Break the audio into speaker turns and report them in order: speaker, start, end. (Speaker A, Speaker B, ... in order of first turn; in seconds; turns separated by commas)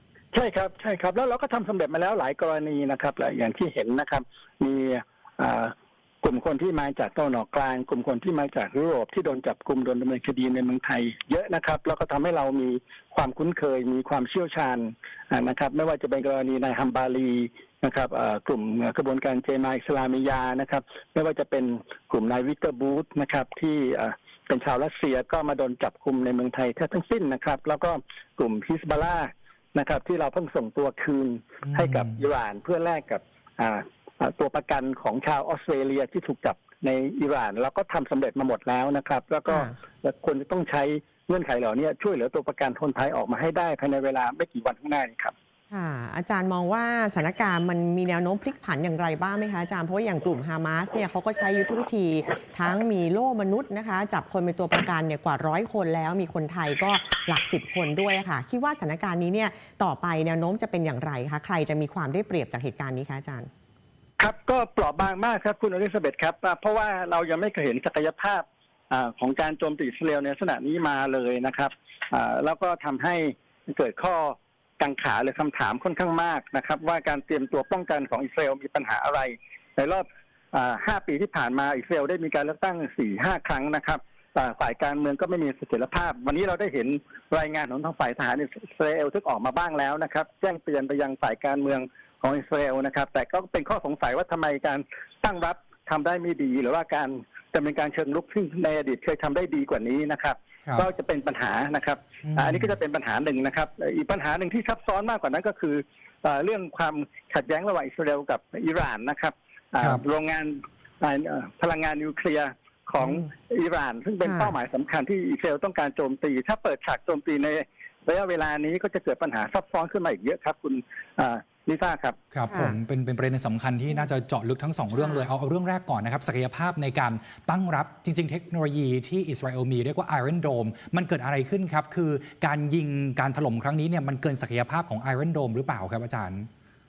Speaker A: 0.3-45.3, Speaker B: 31.7-32.1, Speaker C: 39.5-39.8, Speaker C: 45.7-63.5, Speaker A: 64.2-122.2, Speaker B: 122.3-136.5, Speaker C: 122.5-122.7